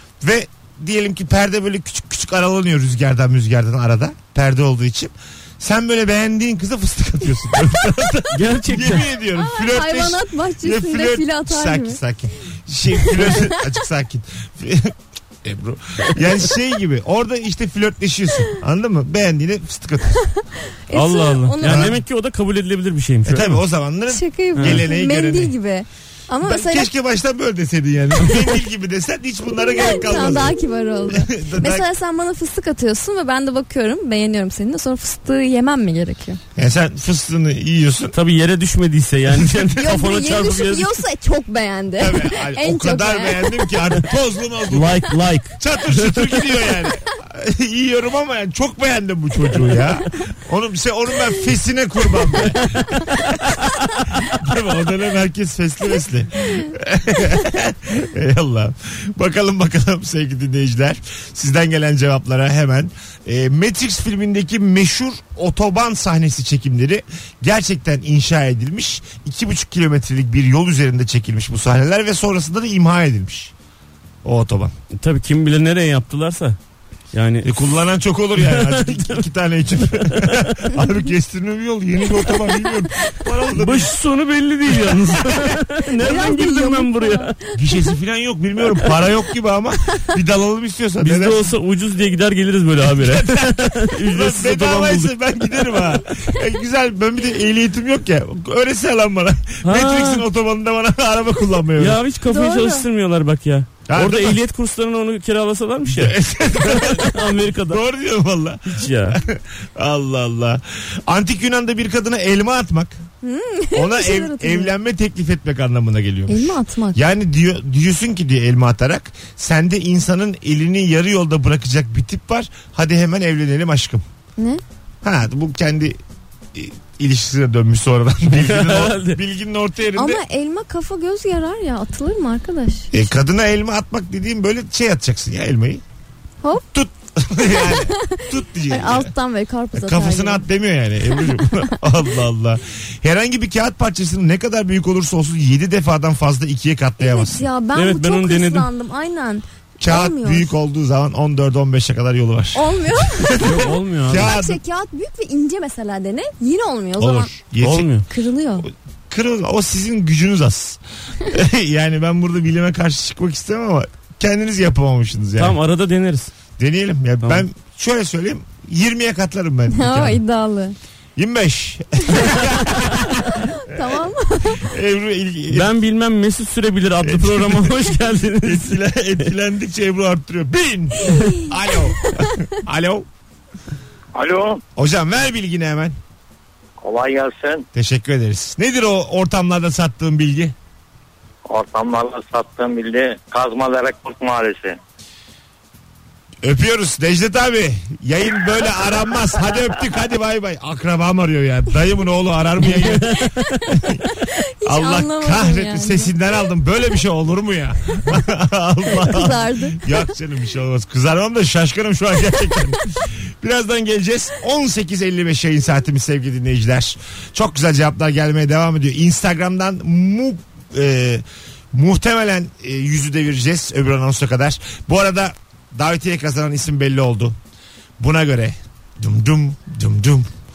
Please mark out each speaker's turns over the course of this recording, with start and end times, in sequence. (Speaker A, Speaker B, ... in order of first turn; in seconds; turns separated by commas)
Speaker A: 0.2-20.2, Speaker B: 8.3-9.1, Speaker C: 9.3-12.0, Speaker C: 13.1-13.5, Speaker C: 20.2-21.9, Speaker B: 20.9-23.6, Speaker A: 21.6-22.0, Speaker A: 23.2-25.6, Speaker C: 24.1-26.9, Speaker B: 24.6-24.9, Speaker A: 26.4-31.9, Speaker C: 29.6-36.4, Speaker A: 36.6-38.2, Speaker B: 38.1-41.0, Speaker A: 39.3-39.7, Speaker C: 39.8-43.7, Speaker A: 42.0-45.0, Speaker B: 44.7-46.5, Speaker A: 45.6-73.5, Speaker A: 74.2-74.8, Speaker B: 75.0-76.6, Speaker B: 77.1-77.5, Speaker A: 77.4-83.9, Speaker B: 78.4-79.2, Speaker B: 79.9-80.5, Speaker B: 83.6-87.3, Speaker A: 84.7-85.5, Speaker C: 86.0-87.4, Speaker A: 87.5-91.5, Speaker B: 91.0-95.7, Speaker A: 92.9-102.0, Speaker B: 99.6-100.2, Speaker B: 101.8-107.8, Speaker C: 102.3-102.9, Speaker A: 103.9-104.4, Speaker A: 105.9-113.0, Speaker B: 108.7-109.2, Speaker C: 113.2-114.7, Speaker A: 113.7-124.0, Speaker C: 116.3-117.0, Speaker A: 125.0-126.0, Speaker A: 126.5-130.2, Speaker B: 128.3-129.2, Speaker C: 129.9-133.1, Speaker A: 132.9-135.8, Speaker A: 136.7-139.1, Speaker C: 137.5-140.4, Speaker A: 139.7-147.5, Speaker C: 141.2-141.8, Speaker C: 147.0-150.5, Speaker B: 147.7-148.7, Speaker A: 149.8-154.6, Speaker C: 152.5-153.5, Speaker B: 153.4-154.3, Speaker C: 154.1-157.3, Speaker A: 157.0-157.9, Speaker B: 157.6-158.1, Speaker C: 158.1-158.7, Speaker A: 158.6-165.6, Speaker B: 165.4-166.3, Speaker A: 166.6-170.2, Speaker C: 169.7-170.8, Speaker A: 171.2-174.0, Speaker C: 173.2-174.6, Speaker A: 174.5-175.7, Speaker B: 175.5-178.8, Speaker A: 177.0-183.1, Speaker C: 181.1-181.3, Speaker D: 184.1-184.6, Speaker A: 184.8-186.0, Speaker D: 186.8-187.7, Speaker A: 187.7-190.6, Speaker D: 191.5-194.8, Speaker A: 196.4-204.0, Speaker C: 204.1-206.1, Speaker A: 204.7-227.4, Speaker C: 208.9-210.0, Speaker A: 228.0-230.3